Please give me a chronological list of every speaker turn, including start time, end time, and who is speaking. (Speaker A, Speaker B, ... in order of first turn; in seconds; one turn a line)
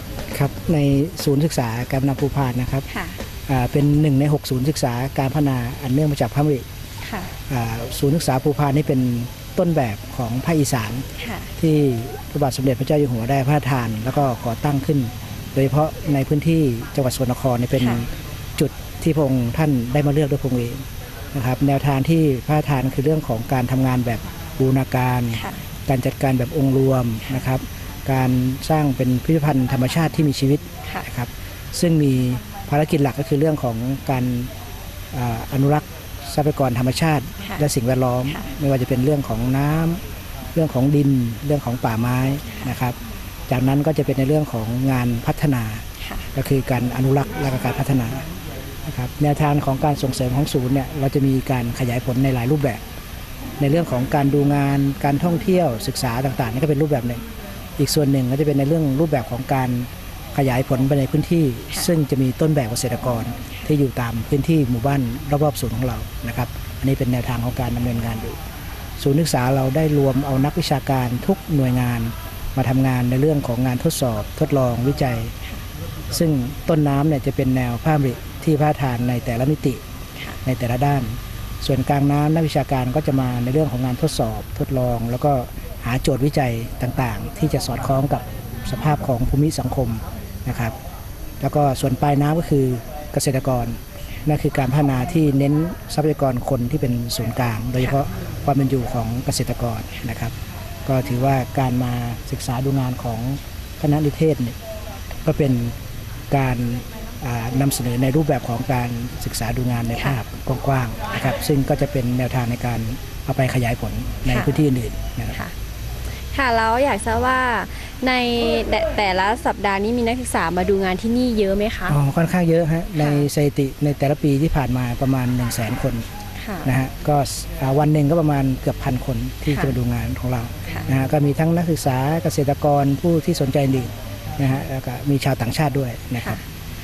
Speaker A: 0.3-2.9
Speaker B: 2.9-3.2
Speaker A: 3.5-6.7
Speaker B: 7.0-7.3
Speaker A: 7.5-11.1
Speaker B: 11.2-11.5
Speaker A: 11.6-34.5
Speaker A: 35.1-40.0
Speaker A: 40.5-43.0
Speaker A: 43.5-48.2
Speaker A: 48.9-52.8
Speaker A: 53.6-57.2
Speaker A: 57.8-68.4
Speaker A: 69.0-75.3
Speaker A: 76.1-79.8
Speaker A: 80.4-90.8
Speaker A: 91.4-100.3
Speaker A: 100.8-104.6
Speaker A: 105.2-105.8
Speaker A: 106.3-115.4
Speaker B: 116.3-122.0
Speaker A: 121.9-126.1
Speaker B: 126.4-126.7
Speaker A: 126.6-136.4